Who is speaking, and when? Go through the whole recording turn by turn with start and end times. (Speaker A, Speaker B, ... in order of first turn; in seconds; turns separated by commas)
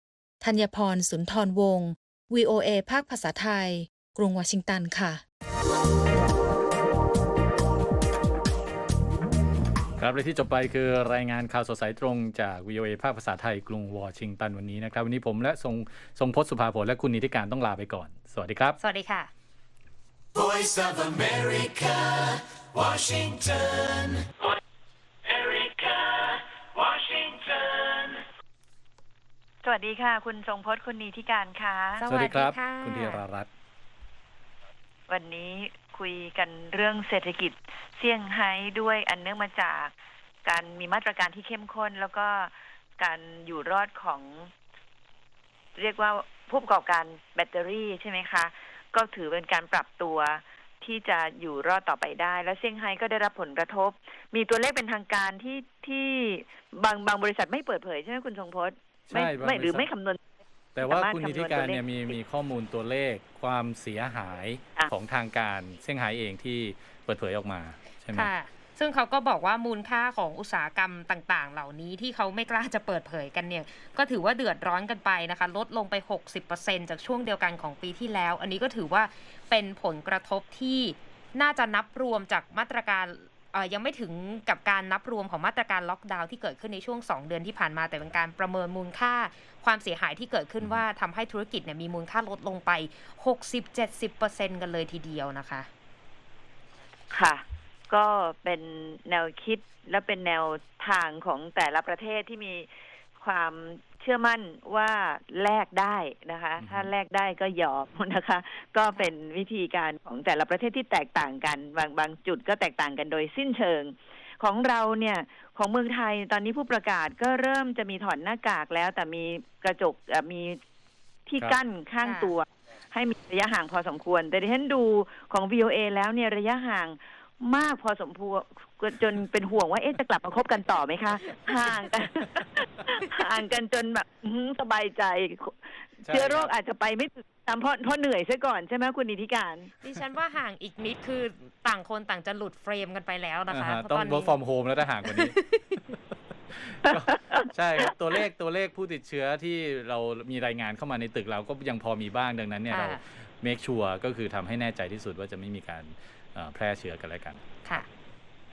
Speaker A: 0.4-5.2, Speaker B: 10.0-18.8, Speaker C: 18.8-19.3, Speaker D: 20.3-24.6, Speaker D: 25.3-28.2, Speaker E: 29.6-32.0, Speaker C: 32.0-33.2, Speaker B: 32.1-33.5, Speaker E: 35.1-39.9, Speaker E: 40.5-44.5, Speaker E: 45.8-60.2, Speaker B: 59.1-59.9, Speaker B: 60.8-68.3, Speaker E: 60.8-62.1, Speaker C: 68.1-95.7, Speaker E: 97.1-102.7, Speaker E: 103.2-120.6, Speaker B: 106.6-106.9, Speaker E: 121.3-139.7, Speaker C: 122.0-122.3, Speaker B: 136.0-136.5, Speaker C: 139.8-144.4, Speaker B: 143.5-145.4, Speaker B: 146.5-157.4, Speaker E: 146.9-147.5, Speaker C: 152.7-153.0